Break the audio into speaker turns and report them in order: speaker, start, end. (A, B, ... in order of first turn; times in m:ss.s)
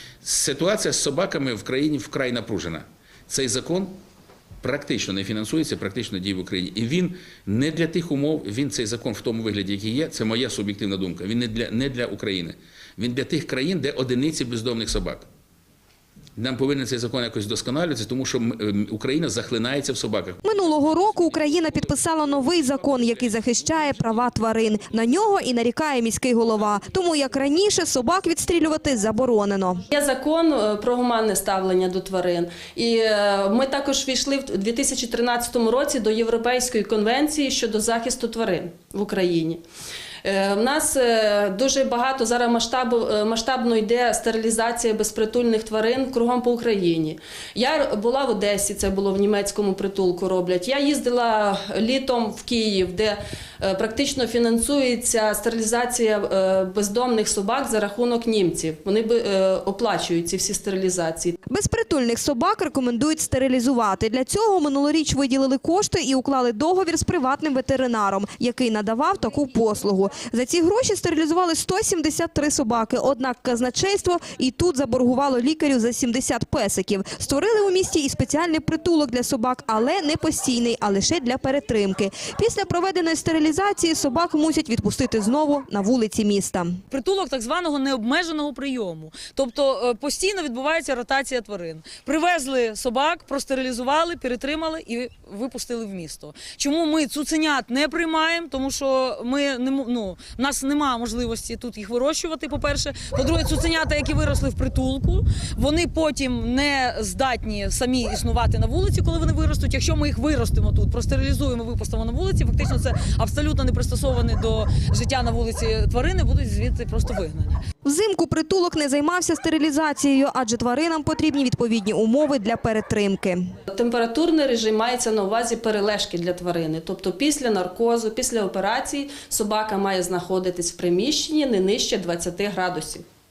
0:00.2-0:03.9 A
0:04.6-0:15.3 A
0:16.4-0:21.5 A
0:20.4-0:29.8 B
0:22.3-0:24.3 A
0:29.9-0:39.6 C
0:40.2-1:01.4 C
1:01.5-1:26.8 B
1:26.9-1:57.6 D
1:57.8-2:03.4 B
2:03.7-2:13.0 C